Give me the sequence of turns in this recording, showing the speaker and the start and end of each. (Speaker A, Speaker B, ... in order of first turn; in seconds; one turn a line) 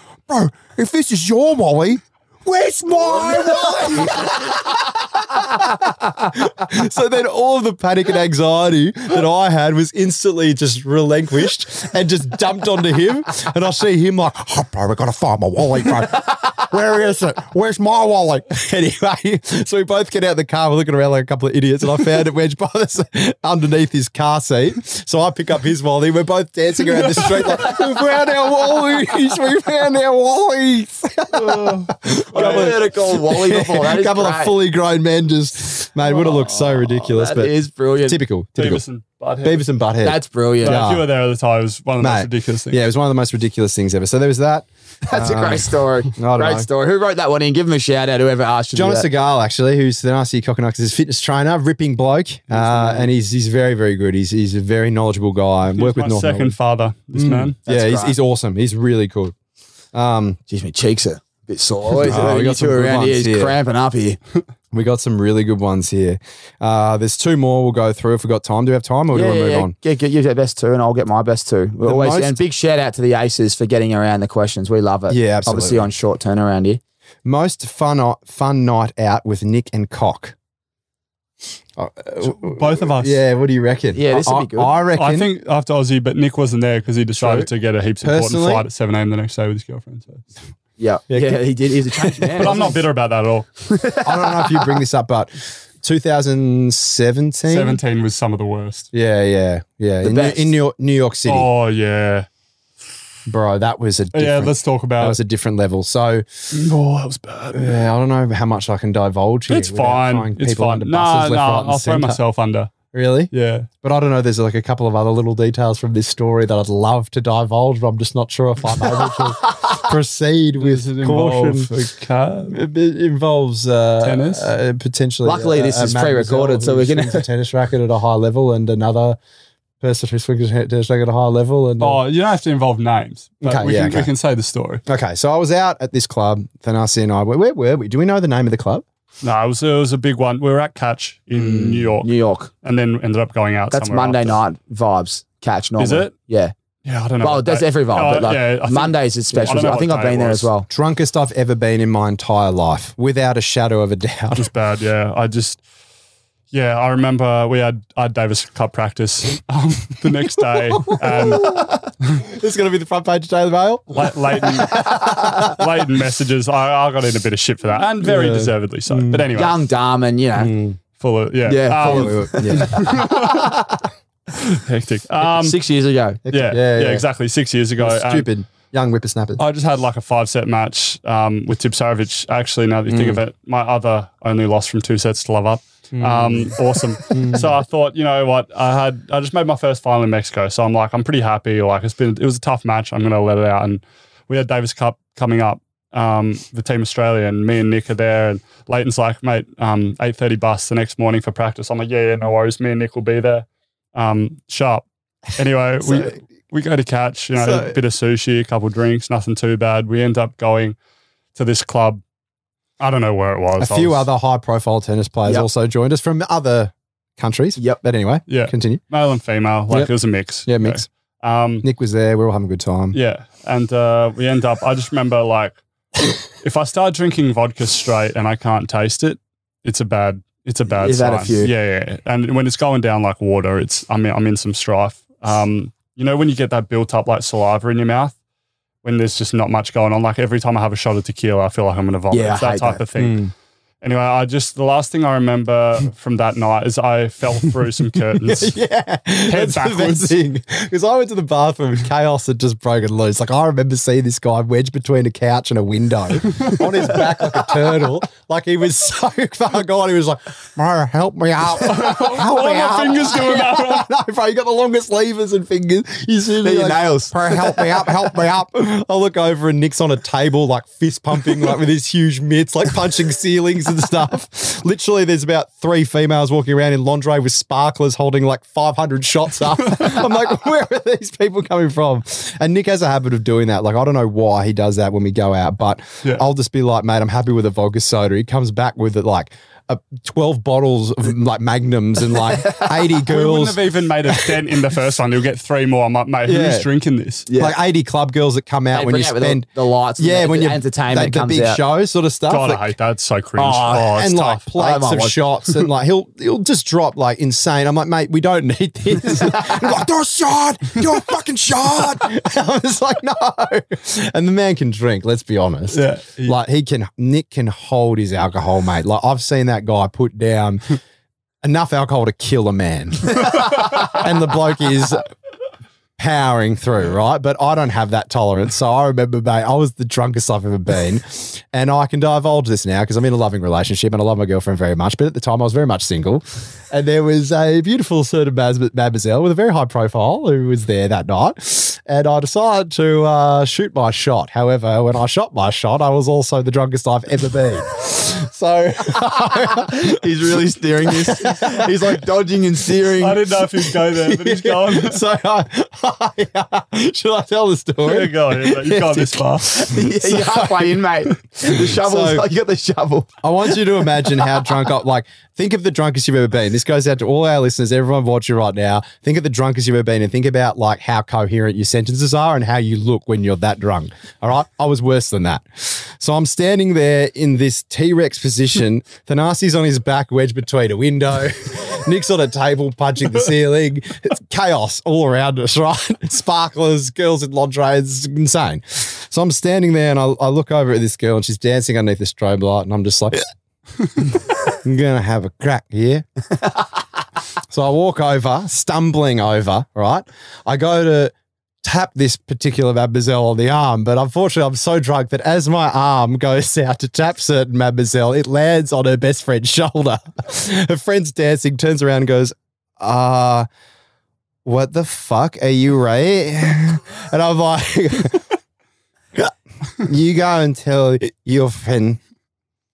Speaker A: 0.3-37.5
Speaker B: 27.0-27.8
Speaker B: 31.3-32.8
Speaker C: 32.3-34.6
Speaker C: 36.0-38.2
Speaker A: 38.0-38.8
Speaker B: 38.6-39.6
Speaker A: 39.4-41.1
Speaker C: 40.0-40.9
Speaker B: 40.6-42.8
Speaker A: 42.0-46.7
Speaker C: 45.0-49.1
Speaker A: 48.7-56.5
Speaker B: 52.5-53.1
Speaker B: 55.7-57.5
Speaker A: 57.1-59.3
Speaker C: 57.7-58.2
Speaker A: 59.9-60.4
Speaker C: 60.5-64.2
Speaker A: 62.0-63.6
Speaker A: 64.7-69.7
Speaker C: 69.1-76.8
Speaker A: 71.8-72.4
Speaker A: 75.1-75.9
Speaker A: 77.2-80.3
Speaker A: 81.8-85.3
Speaker B: 82.2-83.2
Speaker C: 83.9-84.7
Speaker B: 85.0-90.2
Speaker A: 87.2-87.5
Speaker A: 88.0-88.7
Speaker C: 90.8-92.8
Speaker A: 91.1-91.4
Speaker A: 92.1-92.7
Speaker B: 92.3-93.5
Speaker C: 93.7-94.7
Speaker A: 94.0-97.8
Speaker B: 97.5-98.9
Speaker A: 98.9-101.5
Speaker C: 100.0-100.5
Speaker B: 101.2-102.3
Speaker A: 103.3-106.2
Speaker B: 104.1-105.2
Speaker B: 106.5-107.8
Speaker A: 107.5-112.2
Speaker B: 109.5-112.8
Speaker A: 112.9-121.7
Speaker B: 113.3-113.7
Speaker B: 120.6-122.6
Speaker A: 122.5-129.2
Speaker B: 124.0-124.5
Speaker C: 125.2-127.2
Speaker A: 129.8-132.0
Speaker B: 131.8-134.8
Speaker A: 133.4-134.1
Speaker A: 134.8-138.8
Speaker B: 139.2-142.1
Speaker A: 141.3-141.9
Speaker C: 142.0-142.5
Speaker B: 142.6-144.4
Speaker C: 143.7-146.5
Speaker B: 145.8-146.1
Speaker B: 146.8-150.5
Speaker C: 147.2-150.7
Speaker A: 150.7-154.5
Speaker B: 154.4-155.6
Speaker B: 156.5-161.6
Speaker A: 160.5-165.6
Speaker B: 163.9-169.6
Speaker A: 168.0-169.3
Speaker C: 169.3-170.5
Speaker A: 170.3-170.8
Speaker B: 171.0-173.5
Speaker C: 171.4-173.8
Speaker A: 171.8-173.1
Speaker B: 174.5-175.6
Speaker C: 175.2-176.2
Speaker A: 176.2-177.1
Speaker B: 176.3-178.3
Speaker A: 177.8-179.4
Speaker B: 179.4-210.8
Speaker A: 182.9-183.2
Speaker A: 185.9-187.5
Speaker A: 207.3-207.8
Speaker B: 211.3-212.0
Speaker B: 212.8-214.1
Speaker A: 213.6-218.8
Speaker B: 218.3-221.7
Speaker A: 220.4-220.8
Speaker A: 221.6-223.0
Speaker B: 222.9-238.2
Speaker C: 230.7-231.5
Speaker B: 238.8-243.3
Speaker C: 242.1-242.8
Speaker A: 243.0-243.3
Speaker B: 243.8-248.5
Speaker A: 248.1-294.5
Speaker B: 249.3-250.1
Speaker B: 256.3-256.6
Speaker B: 261.6-263.9
Speaker C: 266.4-267.9
Speaker B: 292.9-297.2
Speaker A: 296.2-296.7
Speaker C: 297.3-297.6
Speaker A: 297.3-299.5
Speaker C: 298.7-301.6
Speaker A: 300.0-302.7
Speaker B: 302.3-304.4
Speaker A: 303.4-320.8
Speaker C: 304.6-305.2
Speaker B: 315.7-316.4
Speaker A: 321.4-325.1
Speaker A: 326.0-350.4
Speaker C: 349.3-353.2
Speaker A: 350.9-352.0
Speaker B: 353.0-355.0
Speaker A: 353.5-360.8
Speaker B: 357.8-359.6
Speaker C: 359.5-363.2
Speaker A: 361.4-362.2
Speaker A: 363.2-393.2
Speaker A: 394.0-396.0
Speaker A: 397.5-413.5
Speaker A: 414.4-418.3
Speaker A: 419.1-422.0